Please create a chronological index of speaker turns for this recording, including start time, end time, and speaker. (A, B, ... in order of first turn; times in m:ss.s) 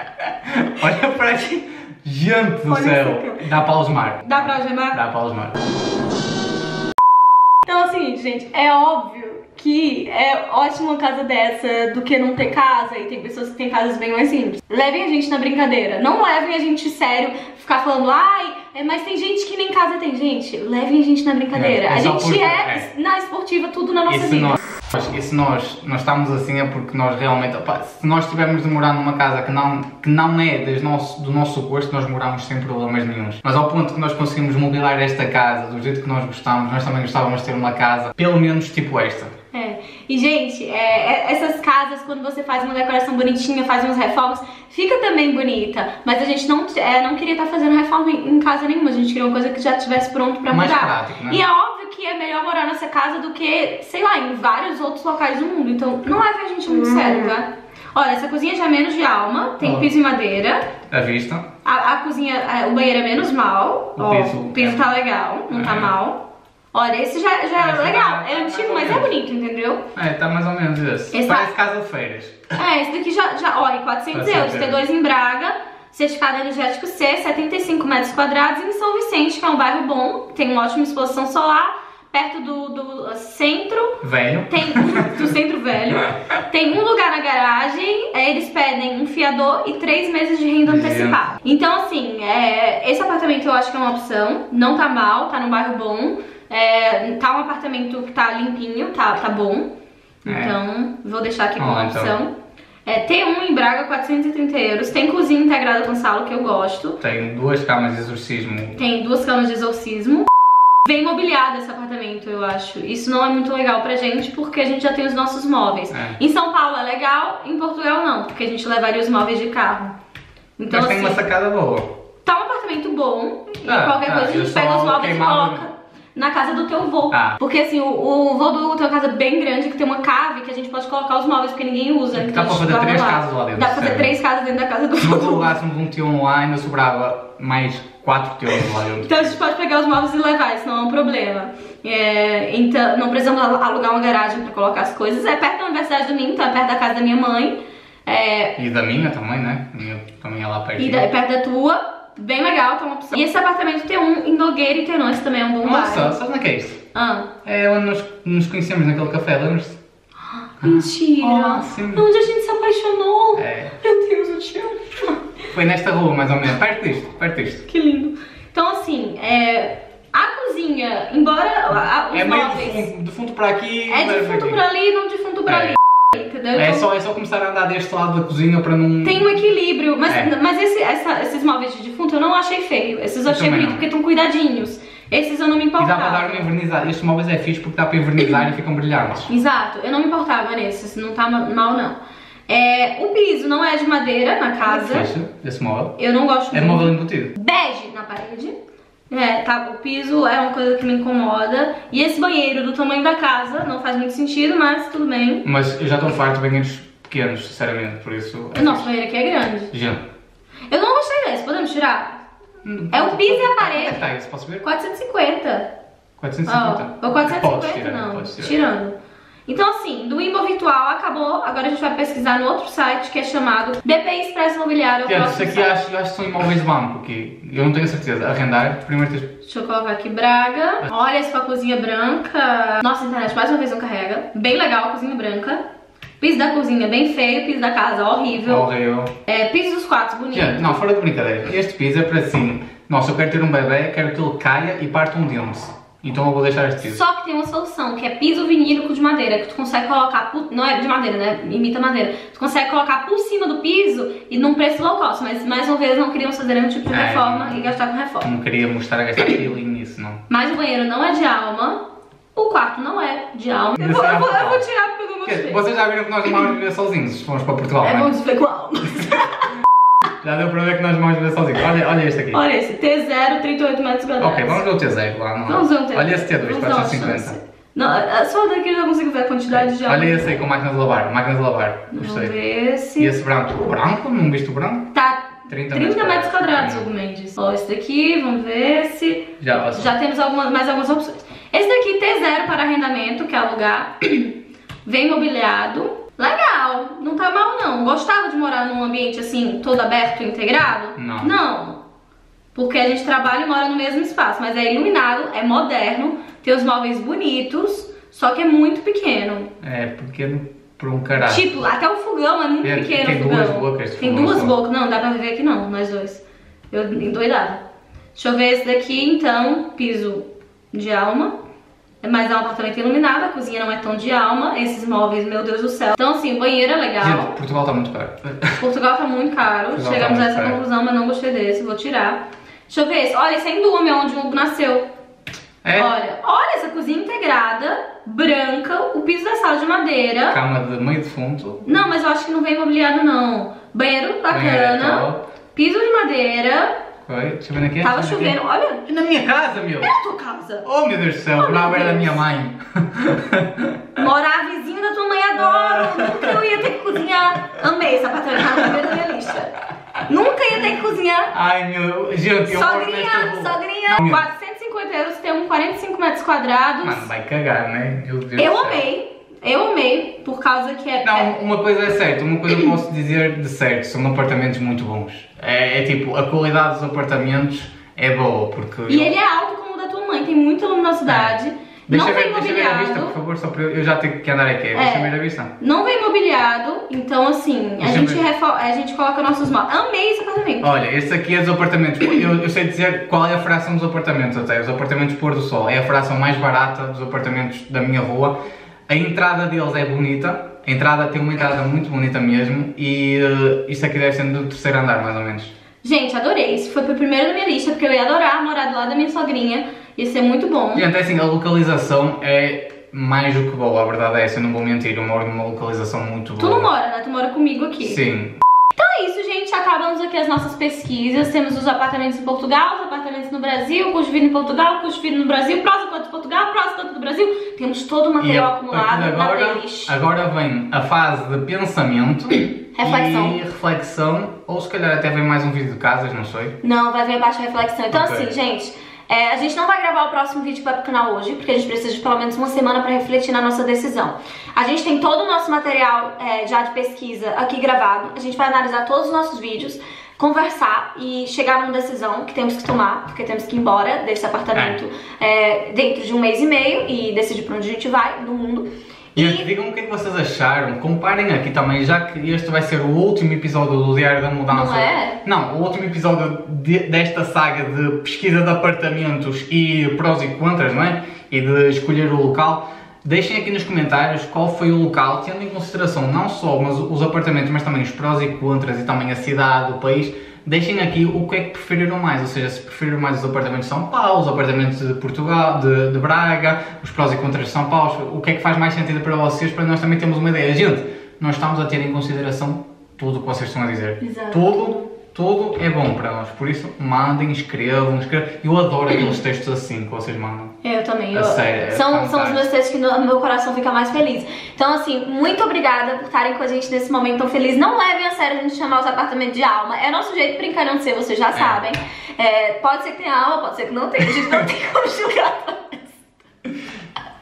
0:00.4-0:05.6 A
0:02.7-0:03.4 B
0:04.2-0:05.0 B
0:07.6-0:24.6 B
0:21.5-0:22.9 A
0:24.1-0:39.3 A
0:39.5-1:00.7 B
0:50.5-0:51.4 A
0:59.6-0:59.9 A
1:00.9-1:01.5 A
1:01.6-1:09.8 B
1:04.0-1:04.9 A
1:05.5-1:06.0 A
1:07.6-1:09.1 A
1:09.9-1:12.4 A
1:11.1-1:11.5 B
1:12.6-1:39.7 B
1:14.1-1:14.8 A
1:24.0-1:25.2 A
1:30.6-1:31.2 A
1:40.2-1:42.3 B
1:40.2-1:40.5 A
1:41.6-1:42.1 A
1:42.8-1:47.0 B
1:47.0-1:48.8 A
1:48.8-1:50.3 B
1:50.8-1:59.9 B
1:55.9-1:56.2 A
2:00.6-2:01.2 B
2:00.7-2:01.9 A
2:02.2-2:15.5 B
2:03.6-2:05.7 A
2:07.1-2:07.4 A
2:12.1-2:14.1 A
2:15.0-2:19.3 A
2:19.0-2:28.6 B
2:28.6-2:31.0 A
2:30.8-2:36.1 B
2:35.6-2:36.8 A
2:36.9-2:37.3 B
2:37.4-2:39.8 A
2:40.4-2:45.2 B
2:40.6-2:42.0 A
2:43.3-2:43.8 A
2:45.5-2:47.6 A
2:47.7-2:52.9 B
2:52.1-2:54.6 A
2:53.9-2:56.9 B
2:55.5-2:55.8 A
2:56.5-2:59.3 A
2:59.0-3:06.5 B
3:00.1-3:00.3 A
3:03.3-3:03.9 A
3:05.8-3:09.3 A
3:09.3-3:12.0 B
3:12.5-3:15.1 B
3:14.6-3:16.0 A
3:16.0-3:18.5 B
3:16.5-3:17.3 A
3:19.1-3:25.4 B
3:25.4-3:28.9 A
3:28.5-3:29.7 B
3:29.7-3:30.0 A
3:30.7-3:32.2 B
3:32.6-3:34.6 A
3:32.9-3:34.0 B
3:34.6-3:35.7 B
3:36.2-3:38.6 A
3:36.4-3:38.9 B
3:39.5-3:45.7 B
3:45.1-3:49.3 A
3:49.4-3:55.6 B
3:56.2-3:58.7 B
3:58.5-3:59.1 A
3:59.2-4:00.8 B
4:00.3-4:07.0 A
4:06.8-4:18.3 B
4:16.9-4:17.6 A
4:18.2-4:20.2 A
4:20.3-4:21.8 B
4:22.3-4:25.6 B
4:23.8-4:24.6 A
4:25.2-4:28.1 A
4:27.8-4:29.5 B
4:30.2-4:32.4 A
4:32.3-4:34.6 B
4:34.2-4:37.4 A
4:35.5-4:40.4 B
4:39.5-4:42.4 A
4:41.9-4:43.1 B
4:43.0-4:44.9 A
4:44.9-4:54.3 B
4:45.5-4:46.9 A
4:49.4-4:49.9 A
4:54.8-5:01.8 B
5:01.0-5:01.3 A
5:02.5-5:09.5 B
5:09.6-5:11.5 A
5:11.2-5:17.6 B
5:12.6-5:14.5 A
5:18.1-5:21.3 B
5:22.0-5:27.3 B
5:27.0-5:28.6 A
5:28.6-5:34.8 B
5:29.7-5:30.6 A
5:35.6-5:35.9 A
5:35.7-5:40.4 B
5:40.3-5:41.8 A
5:41.6-5:46.8 B
5:44.3-5:45.2 A
5:47.0-5:48.4 A
5:47.8-5:48.8 B
5:48.9-5:49.9 A
5:49.8-5:50.6 B
5:50.6-5:53.8 A
5:51.4-5:52.2 B
5:54.0-6:01.3 B
5:55.3-5:56.5 A
5:58.6-5:58.9 A
6:01.3-6:04.2 A
6:02.5-6:07.1 B
6:06.8-6:08.8 A
6:08.4-6:11.3 B
6:11.0-6:19.1 A
6:18.9-6:23.2 B
6:21.0-6:21.3 A
6:21.9-6:25.5 A
6:24.7-6:30.7 B
6:27.8-6:28.2 A
6:30.6-6:38.4 A
6:38.9-6:45.5 A
6:45.8-6:50.9 B
6:50.7-6:56.7 A
6:56.4-6:58.0 B
6:57.8-6:58.4 A
6:58.7-7:09.9 B
7:08.2-7:16.6 A
7:12.3-7:13.4 B
7:16.6-7:39.4 B
7:17.9-7:18.3 A
7:39.2-8:20.5 A
7:44.5-7:45.2 B
8:14.0-8:14.9 B
8:20.6-8:36.0 B
8:21.1-8:22.5 A
8:31.3-8:31.6 A